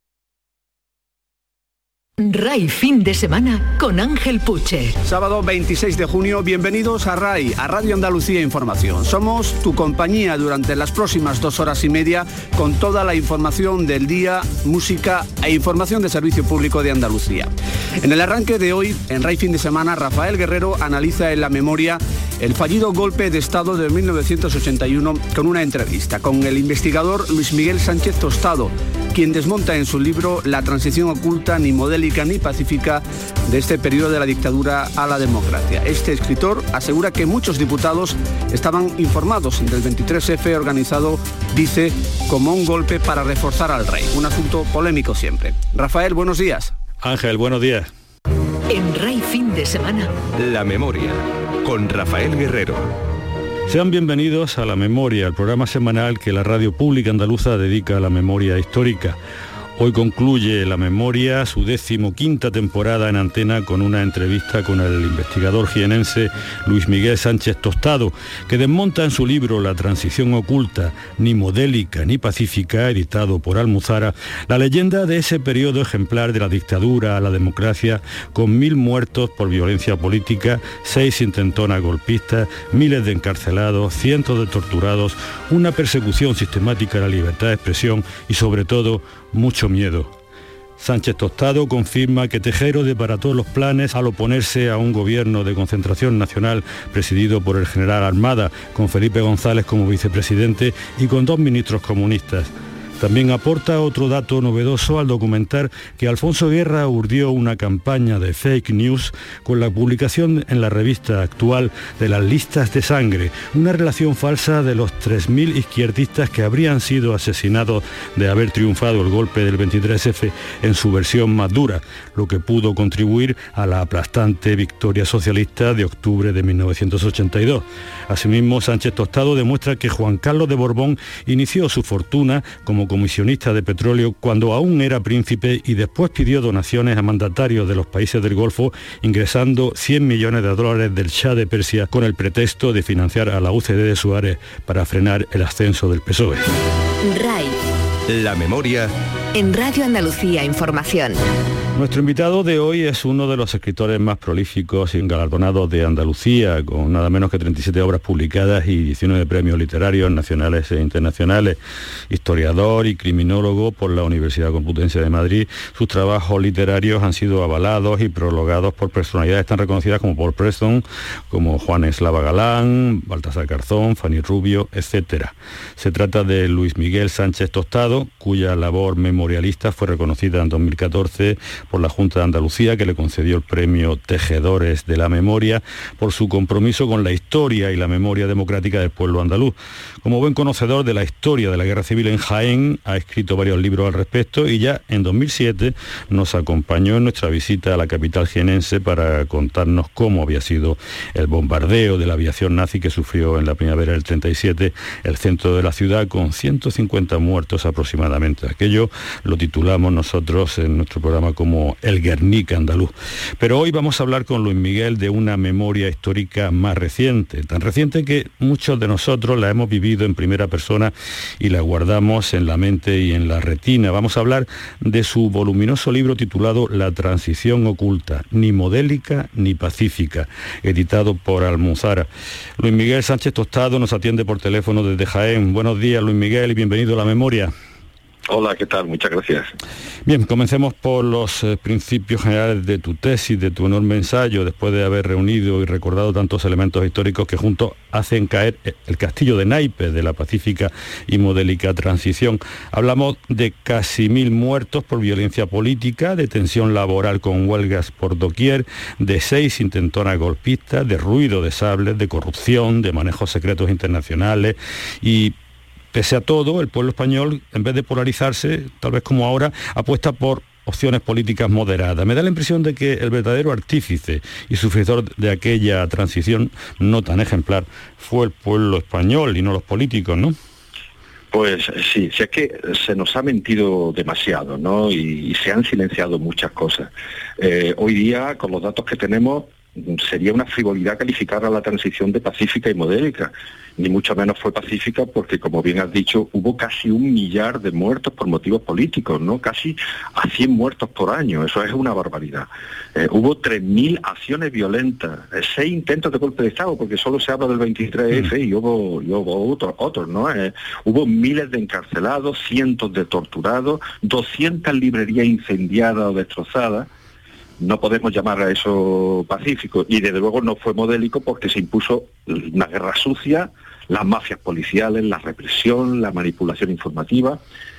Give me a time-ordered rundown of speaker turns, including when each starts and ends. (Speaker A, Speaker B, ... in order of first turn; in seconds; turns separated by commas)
Speaker A: 2.2-5.0, Speaker B: 5.0-46.7, Speaker C: 47.0-47.9, Speaker A: 48.7-50.1, Speaker D: 50.3-52.9, Speaker C: 53.7-59.2, Speaker C: 59.8-90.1, Speaker C: 90.8-146.5, Speaker A: 147.0-147.6, Speaker D: 148.1-148.9, Speaker A: 149.3-151.2, Speaker C: 151.8-161.6, Speaker C: 162.1-237.5, Speaker E: 238.3-239.5, Speaker C: 240.1-265.3, Speaker C: 265.9-280.4, Speaker E: 281.3-316.9, Speaker E: 317.6-327.4